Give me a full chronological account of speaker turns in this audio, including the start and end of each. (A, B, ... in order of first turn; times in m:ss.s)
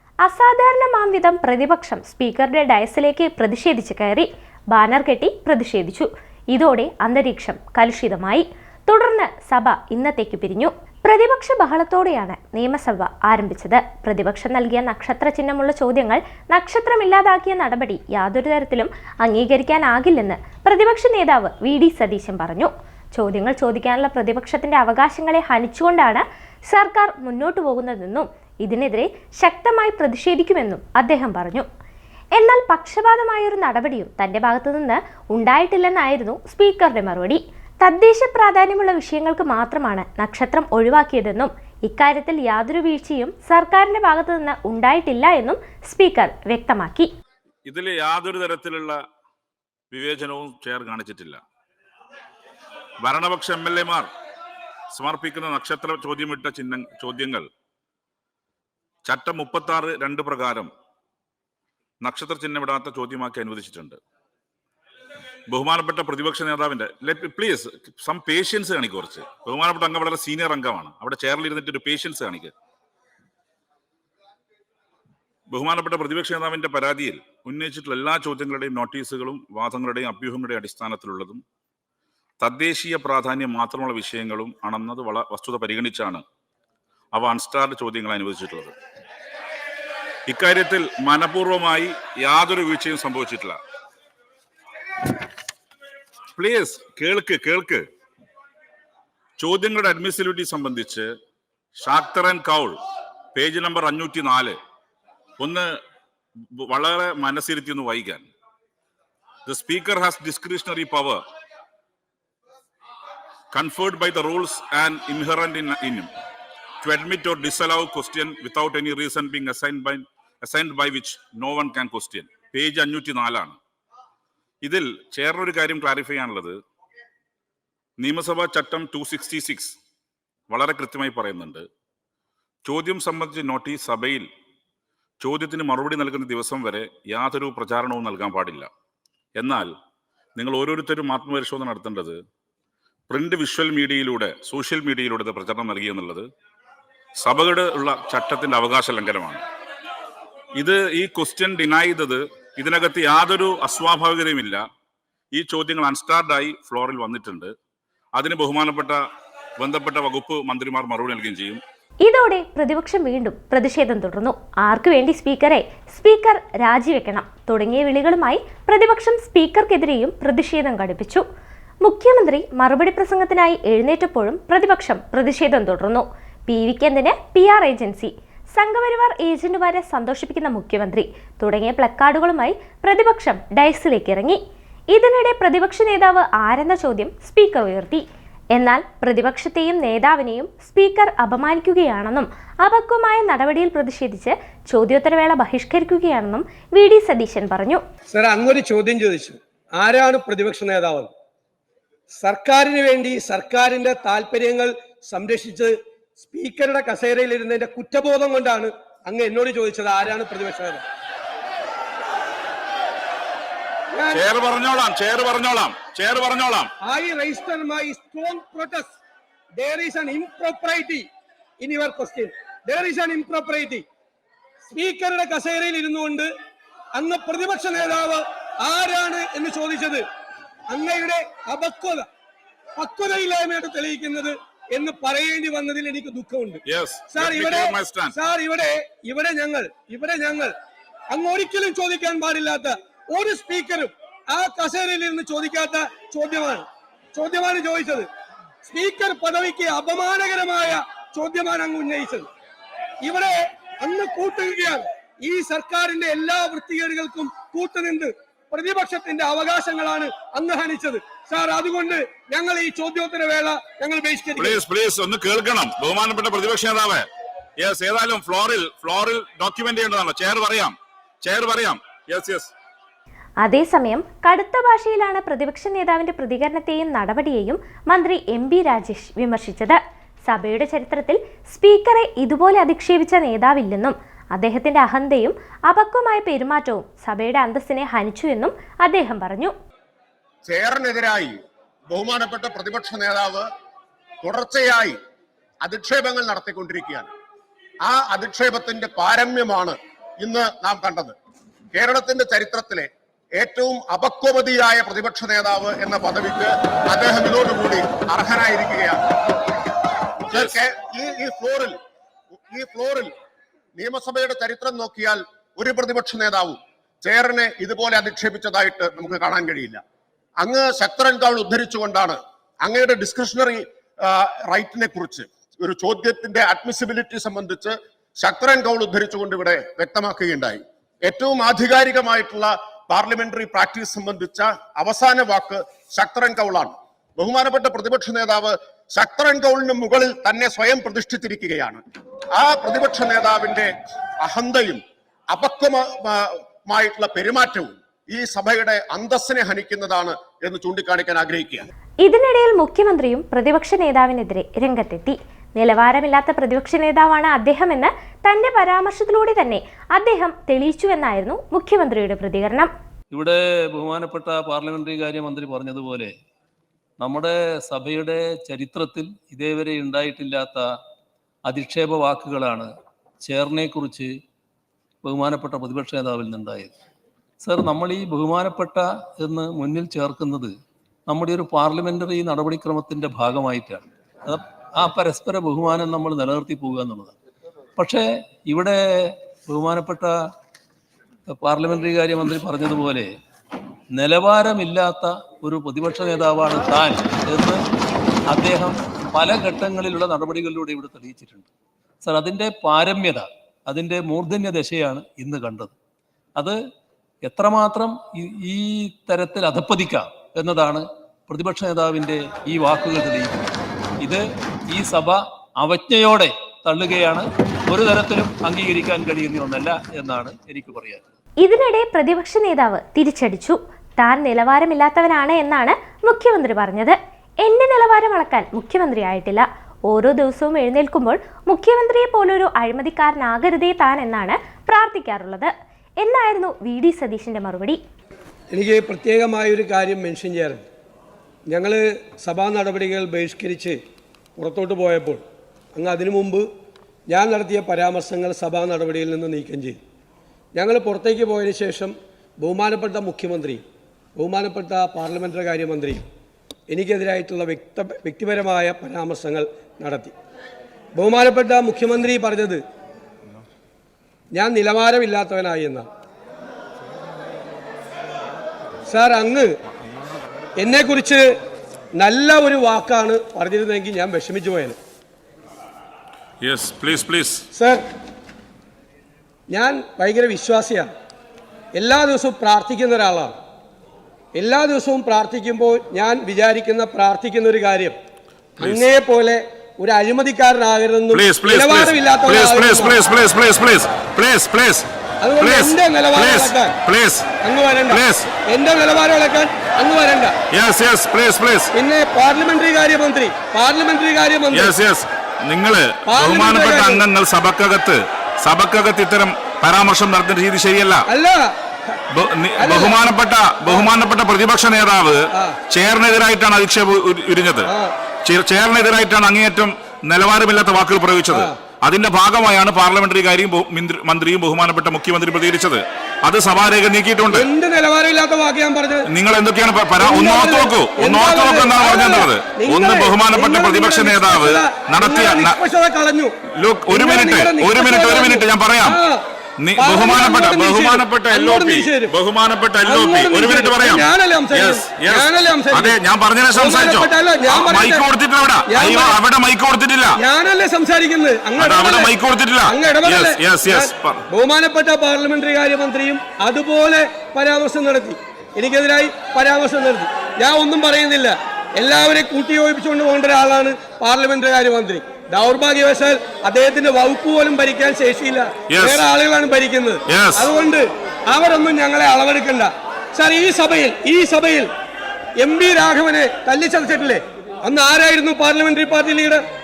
0:00.2-0:31.7 A
0:32.3-0:47.1 A
0:47.6-0:49.0 B
0:49.9-0:51.4 B
0:53.0-0:54.1 B
0:54.9-0:57.5 B
0:59.0-1:00.7 B
1:02.0-1:04.0 B
1:05.5-1:12.5 B
1:15.5-1:21.4 B
1:22.4-1:26.2 B
1:27.1-1:28.8 B
1:30.3-1:33.6 B
1:36.3-1:37.9 B
1:39.4-1:41.1 B
1:41.8-1:42.8 B
1:43.3-1:44.6 B
1:45.4-1:45.7 B
1:46.6-1:48.3 B
1:49.5-1:51.2 B
1:53.5-1:56.1 B
1:56.8-2:03.6 B
2:04.6-2:06.6 B
2:08.0-2:09.8 B
2:10.5-2:11.7 B
2:12.6-2:14.3 B
2:15.2-2:18.7 B
2:19.4-2:19.7 B
2:20.4-2:22.2 B
2:23.1-2:26.2 B
2:27.2-2:29.4 B
2:30.6-2:34.6 B
2:35.3-2:37.5 B
2:38.1-2:39.0 B
2:39.6-2:41.6 B
2:42.0-2:51.2 A
2:51.8-3:04.4 A
3:04.9-3:17.8 A
3:18.1-3:21.1 C
3:22.2-3:30.8 C
3:33.9-3:34.2 C
3:34.1-3:36.7 B
3:36.8-3:39.0 C
3:39.6-3:41.1 C
3:41.6-3:43.8 C
3:44.7-3:46.3 C
3:46.9-3:50.0 C
3:50.7-3:52.1 C
3:52.8-4:00.5 C
3:56.7-3:58.1 B
4:01.1-4:08.1 C
4:08.6-4:12.3 C
4:13.0-4:24.6 C
4:24.4-4:27.1 B
4:27.6-4:32.5 B
4:33.4-4:49.5 A
4:50.4-4:51.4 D
4:51.9-4:53.5 D
4:54.2-4:55.0 D
4:55.6-4:57.1 D
4:57.8-5:01.1 D
5:01.7-5:09.0 D
5:10.3-5:11.8 D
5:12.5-5:13.1 D
5:13.8-5:19.8 D
5:20.4-5:41.8 D
5:42.3-5:43.7 D
5:44.2-5:51.7 D
5:52.0-6:02.7 A
6:03.1-6:06.1 E
6:07.0-6:10.6 E
6:11.5-6:12.7 E
6:13.2-6:14.1 E
6:15.0-6:16.7 E
6:17.4-6:20.5 E
6:21.1-6:27.1 E
6:27.8-6:30.2 E
6:31.3-6:33.1 E
6:33.9-6:37.6 E
6:38.3-6:41.5 E
6:42.0-6:45.7 E
6:47.2-6:53.4 E
6:54.0-7:01.0 E
7:01.4-7:17.8 A
7:18.5-7:20.6 C
7:21.5-7:23.8 C
7:24.4-7:25.2 C
7:25.7-7:26.5 C
7:27.1-7:29.8 C
7:30.5-7:33.6 C
7:34.2-7:36.0 C
7:36.7-7:40.1 C
7:40.9-7:42.6 C
7:44.3-7:45.9 C
7:48.9-7:49.5 C
7:50.6-7:51.3 C
7:51.9-7:54.8 C
7:56.4-7:57.4 B
7:57.5-7:57.8 C
7:59.5-8:00.9 C
8:01.8-8:03.3 C
8:04.3-8:08.0 C
8:08.6-8:13.0 C
8:08.6-8:08.9 B
8:11.1-8:14.9 B
8:15.2-8:16.8 C
8:15.4-8:17.3 B
8:17.4-8:20.3 C
8:17.9-8:18.3 B
8:20.5-8:21.7 B
8:21.7-8:24.7 C
8:24.5-8:31.0 B
8:26.1-8:27.0 C
8:31.1-8:32.0 C
8:32.1-8:37.7 B
8:32.6-8:33.0 C
8:33.6-8:33.9 C
8:35.3-8:35.6 C
8:37.6-8:37.9 C
8:38.2-8:47.5 B
8:41.3-8:41.6 C
8:47.3-8:49.1 C
8:49.1-8:55.6 B
8:50.0-8:56.4 C
8:56.5-8:59.0 B
8:56.9-8:59.2 C
8:59.6-9:10.2 B
8:59.8-9:02.1 C
9:02.8-9:06.0 C
9:06.5-9:08.1 C
9:08.7-9:09.2 C
9:10.2-9:12.1 C
9:11.6-9:14.2 B
9:12.6-9:34.7 C
9:28.7-9:29.0 B
9:30.1-9:30.5 B
9:35.4-9:39.4 C